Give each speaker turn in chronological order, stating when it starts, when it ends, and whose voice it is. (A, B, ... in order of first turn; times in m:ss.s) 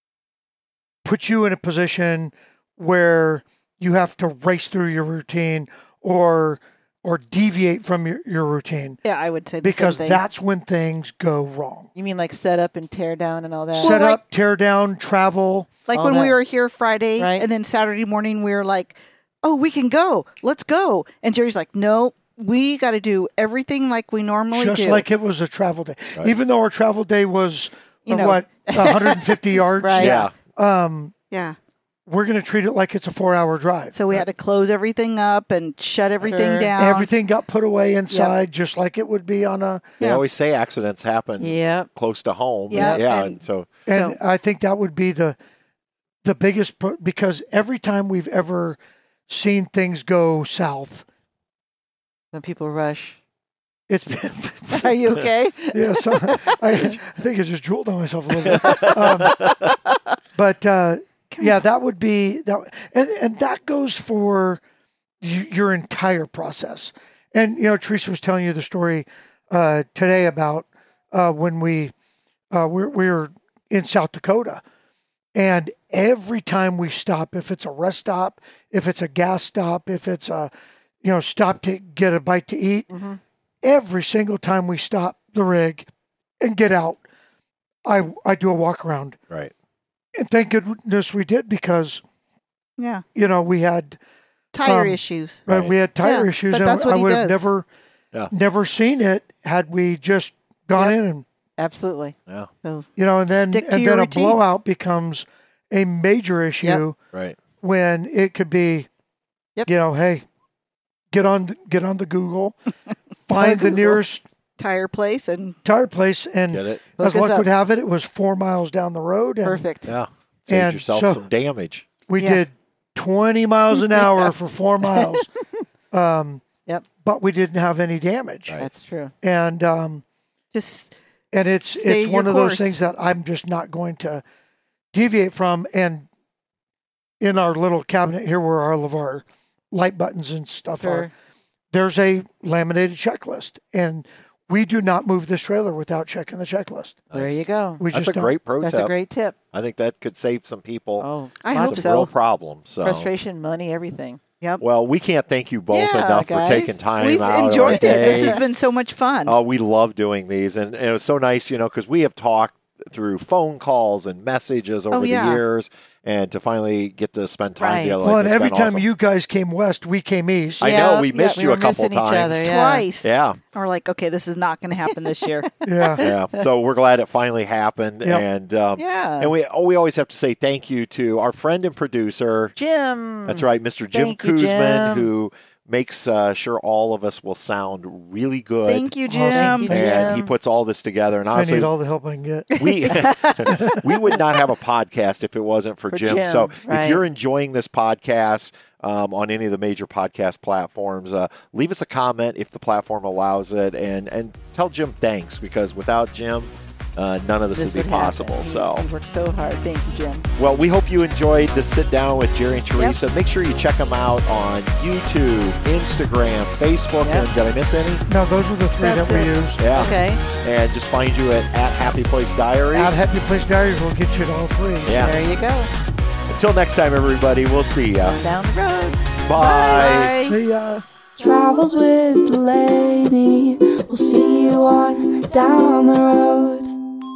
0:01.0-0:09.0 A
0:09.0-0:10.2 B
0:09.6-0:11.9 A
0:12.0-0:14.0 C
0:13.7-0:14.2 B
0:13.8-0:15.7 A
0:15.9-0:25.0 B
0:15.9-0:16.4 C
0:17.2-0:17.5 C
0:24.5-0:31.1 A
0:28.1-0:28.4 B
0:28.7-0:30.3 C
0:30.0-0:30.3 D
0:31.3-0:31.6 B
0:32.1-0:34.0 A
0:33.9-0:37.1 B
0:36.2-0:36.7 C
0:36.8-0:39.9 A
0:40.0-0:43.7 D
0:41.4-0:41.9 C
0:42.7-0:44.2 B
0:42.7-0:43.0 C
0:43.9-0:45.4 A
0:46.2-0:51.0 A
0:52.3-0:53.2 C
0:53.9-0:55.2 A
0:54.8-0:57.0 C
0:55.7-0:59.4 A
0:58.6-0:59.6 D
1:00.4-1:04.6 A
1:05.2-1:11.9 A
1:12.5-1:14.6 A
1:15.4-1:20.5 A
1:21.0-1:22.9 A
1:22.9-1:23.2 C
1:23.6-1:25.9 A
1:26.4-1:27.0 A
1:27.8-1:29.2 A
1:30.2-1:32.0 A
1:32.8-1:33.0 B
1:33.2-1:34.0 A
1:34.5-1:35.4 B
1:34.6-1:37.7 A
1:35.5-1:35.8 D
1:36.0-1:37.5 B
1:38.3-1:41.2 A
1:41.6-1:42.2 C
1:42.6-1:44.4 B
1:43.0-1:47.0 A
1:47.6-1:48.9 A
1:49.7-1:50.2 A
1:51.1-1:52.6 A
1:53.3-1:54.2 A
1:53.3-1:54.0 B
1:54.6-1:55.6 B
1:55.6-1:59.6 A
1:56.5-1:56.8 D
1:57.0-1:57.5 C
1:59.4-1:59.9 C
1:59.8-2:01.9 D
2:00.5-2:01.3 A
2:02.1-2:05.3 A
2:02.2-2:02.4 B
2:05.0-2:05.3 C
2:05.9-2:06.4 A
2:07.0-2:08.6 A
2:08.6-2:09.1 C
2:09.2-2:10.0 A
2:10.5-2:10.9 B
2:11.3-2:14.2 A
2:11.7-2:12.8 B
2:14.9-2:16.1 A
2:17.2-2:21.1 A
2:20.8-2:21.1 C
2:21.7-2:27.0 A
2:27.1-2:28.9 D
2:27.1-2:27.8 C
2:27.8-2:28.4 A
2:28.6-2:29.4 C
2:29.5-2:33.1 D
2:31.0-2:31.9 C
2:31.4-2:32.1 B
2:32.8-2:34.2 C
2:34.6-2:38.4 D
2:35.7-2:36.8 C
2:37.0-2:39.4 B
2:37.6-2:38.4 C
2:39.3-2:48.8 D
2:44.9-2:45.4 B
2:47.6-2:48.0 C
2:48.0-2:50.8 A
2:50.6-2:52.5 D
2:50.6-2:52.8 C
2:51.1-2:51.4 B
2:52.4-2:55.5 B
2:53.0-2:53.4 D
2:55.6-2:56.0 A
2:55.8-2:56.4 C
2:56.0-3:02.6 D
2:58.8-2:59.3 C
3:02.6-3:05.1 C
3:03.3-3:08.9 D
3:08.7-3:10.1 B
3:09.1-3:09.7 A
3:09.2-3:10.3 C
3:09.7-3:11.7 D
3:11.3-3:12.6 A
3:12.6-3:13.2 B
3:12.6-3:28.9 D
3:13.5-3:13.8 A
3:15.9-3:17.0 C
3:27.6-3:30.3 C
3:30.4-3:38.1 D
3:37.0-3:37.3 C
3:38.1-3:39.6 A
3:38.8-3:39.4 B
3:39.6-3:43.0 D
3:39.7-3:40.2 C
3:42.7-3:45.1 A
3:44.9-3:45.3 D
3:44.9-3:45.7 C
3:46.3-3:48.2 D
3:48.0-3:49.0 C
3:49.2-3:50.2 D
3:49.3-3:50.4 B
3:50.2-3:50.8 A
3:51.2-3:56.7 E